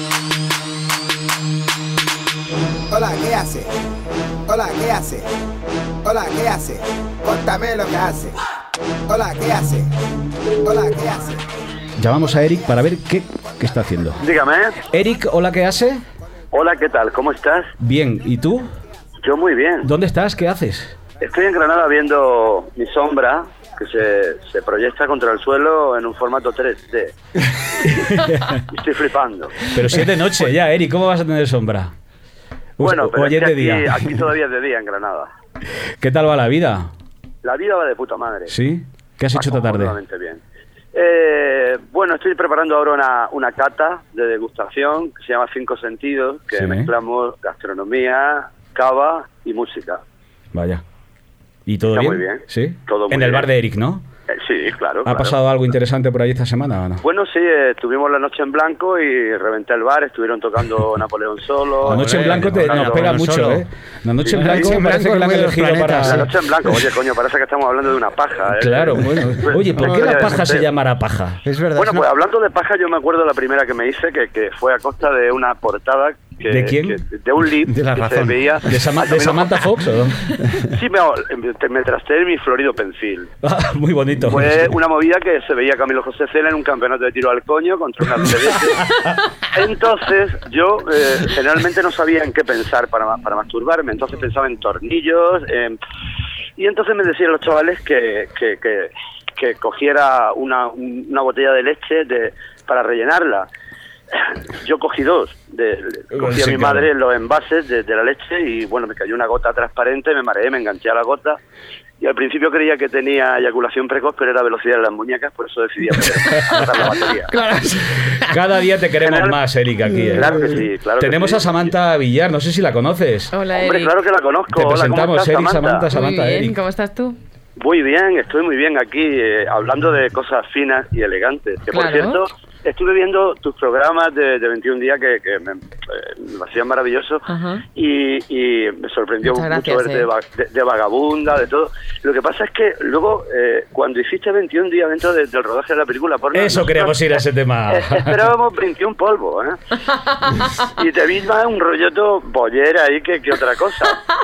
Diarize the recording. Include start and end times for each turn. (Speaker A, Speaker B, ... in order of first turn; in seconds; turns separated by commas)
Speaker A: 2.9-3.7, Speaker A: 4.5-5.2, Speaker A: 6.0-8.3, Speaker A: 9.1-9.9, Speaker A: 10.6-11.4, Speaker B: 12.0-14.2, Speaker C: 14.2-14.8, Speaker B: 14.9-16.0, Speaker C: 16.5-17.7, Speaker B: 17.8-18.7, Speaker C: 19.2-19.9, Speaker B: 19.8-21.0, Speaker C: 21.2-27.1, Speaker B: 27.8-28.6, Speaker C: 28.7-29.6, Speaker B: 29.6-31.9, Speaker B: 32.8-34.1, Speaker C: 32.8-35.3, Speaker B: 36.0-36.9, Speaker C: 37.4-38.5, Speaker B: 38.5-40.0, Speaker C: 39.3-40.4, Speaker C: 40.9-50.0, Speaker B: 46.5-46.9, Speaker B: 50.5-50.8, Speaker B: 51.7-54.0, Speaker C: 51.9-53.5, Speaker C: 54.3-55.3, Speaker B: 55.0-57.0, Speaker C: 57.0-63.1, Speaker D: 61.8-63.6, Speaker B: 61.9-66.3, Speaker C: 64.2-64.7, Speaker D: 64.3-66.3, Speaker C: 66.1-70.7, Speaker B: 68.6-71.4, Speaker D: 69.1-70.4, Speaker D: 71.4-72.1, Speaker C: 71.8-79.5, Speaker B: 76.5-77.0, Speaker D: 77.7-78.8, Speaker B: 78.7-80.3, Speaker C: 80.7-83.3, Speaker B: 83.4-84.7, Speaker C: 84.2-88.9, Speaker B: 88.8-89.2, Speaker C: 89.5-95.8, Speaker C: 96.6-103.5, Speaker C: 104.2-111.4, Speaker B: 106.1-106.9, Speaker C: 112.0-117.3, Speaker B: 116.2-116.7, Speaker D: 117.4-117.9, Speaker B: 118.0-123.3, Speaker C: 119.0-119.4, Speaker C: 120.2-121.7, Speaker E: 123.3-124.0, Speaker C: 123.5-125.9, Speaker B: 124.5-126.6, Speaker E: 125.9-127.2, Speaker C: 127.6-137.2, Speaker E: 131.7-132.2, Speaker E: 137.3-137.6, Speaker C: 137.8-147.2, Speaker E: 139.2-140.1, Speaker B: 146.3-148.2, Speaker C: 147.7-149.6, Speaker E: 150.1-150.5, Speaker C: 150.7-154.0